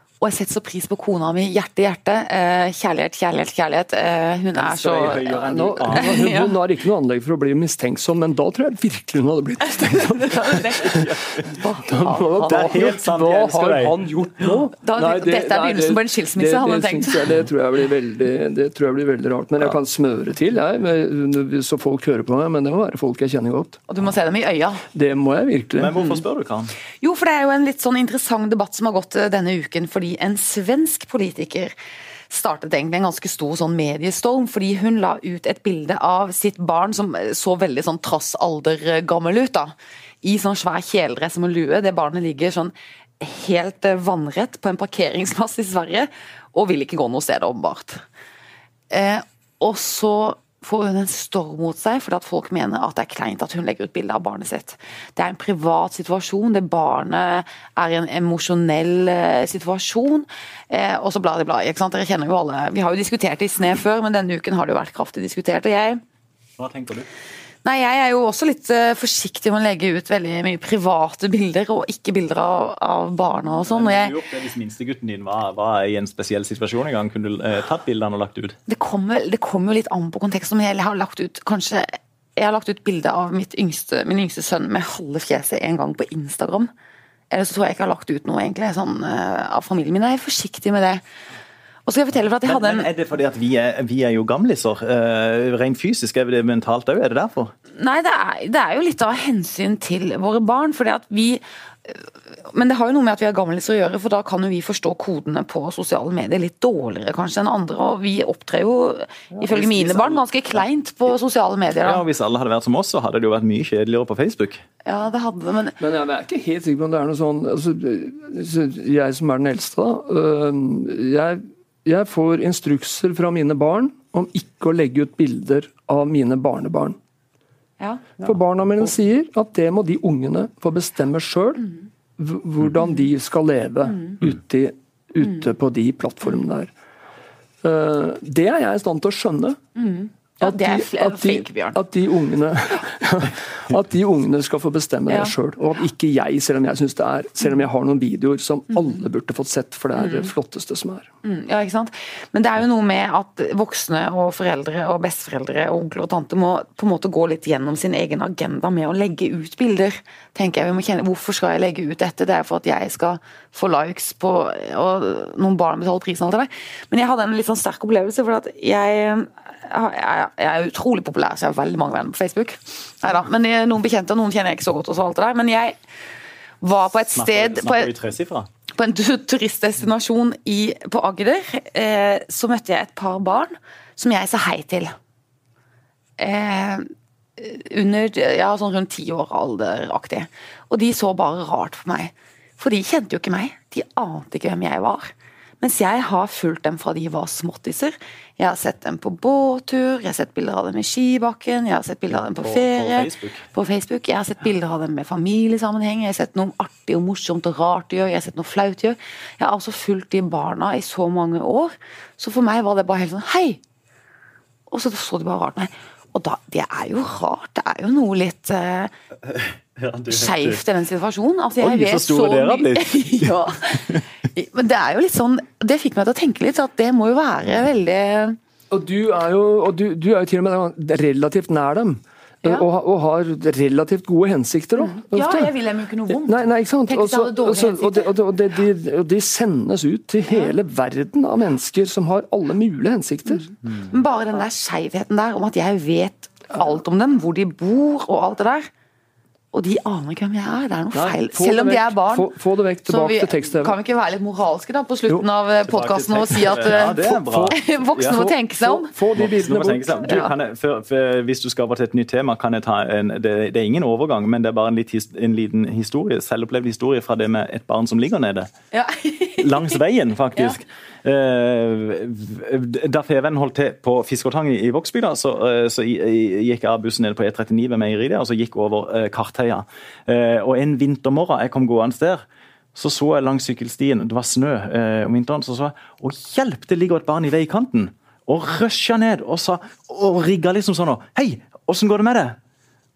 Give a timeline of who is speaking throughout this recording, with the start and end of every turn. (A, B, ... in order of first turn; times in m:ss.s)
0:00.2-0:05.3 A
0:04.6-0:06.3 B
0:05.3-0:11.1 C
0:06.0-0:06.5 A
0:09.9-0:12.7 A
0:11.8-0:23.8 C
0:12.5-0:14.6 B
0:14.8-0:17.3 A
0:23.9-0:24.8 A
0:24.9-0:26.0 C
0:25.8-0:26.7 B
0:27.0-0:31.7 A
0:32.3-0:48.0 A
0:48.9-1:06.0 A
1:06.6-1:07.1 B
1:07.6-1:14.2 A
1:13.7-1:18.6 B
1:18.7-1:26.7 A
1:27.3-1:31.0 A
1:31.8-1:32.9 A
1:32.4-1:37.5 B
1:37.7-1:52.0 A
1:49.4-1:50.2 C
1:51.8-1:54.6 B
1:54.8-1:55.8 A
1:55.8-2:07.0 C
2:07.8-2:08.3 A
2:08.2-2:11.7 C
2:12.2-2:16.7 C
2:17.6-2:19.6 C
2:19.8-2:21.8 A
2:20.4-2:31.1 C
2:30.0-2:30.3 A
2:31.2-2:55.8 A
2:56.6-2:57.9 A
2:57.1-2:58.5 B
2:58.7-3:04.9 A
3:06.2-3:33.6 A
3:22.2-3:23.4 B
3:34.7-3:38.9 A
3:39.3-3:40.6 B
3:40.1-3:48.4 A
3:41.6-3:44.0 B
3:48.7-3:55.5 C
3:54.8-3:58.1 A
3:56.1-4:03.5 C
4:00.3-4:00.5 A
4:03.3-4:08.7 A
4:09.5-4:12.3 A
4:10.9-4:13.8 C
4:12.8-4:18.9 A
4:15.6-4:18.2 B
4:16.6-4:20.3 C
4:19.2-4:28.5 B
4:20.0-4:20.3 A
4:28.7-4:29.8 A
4:29.4-4:42.2 B
4:42.7-4:52.4 B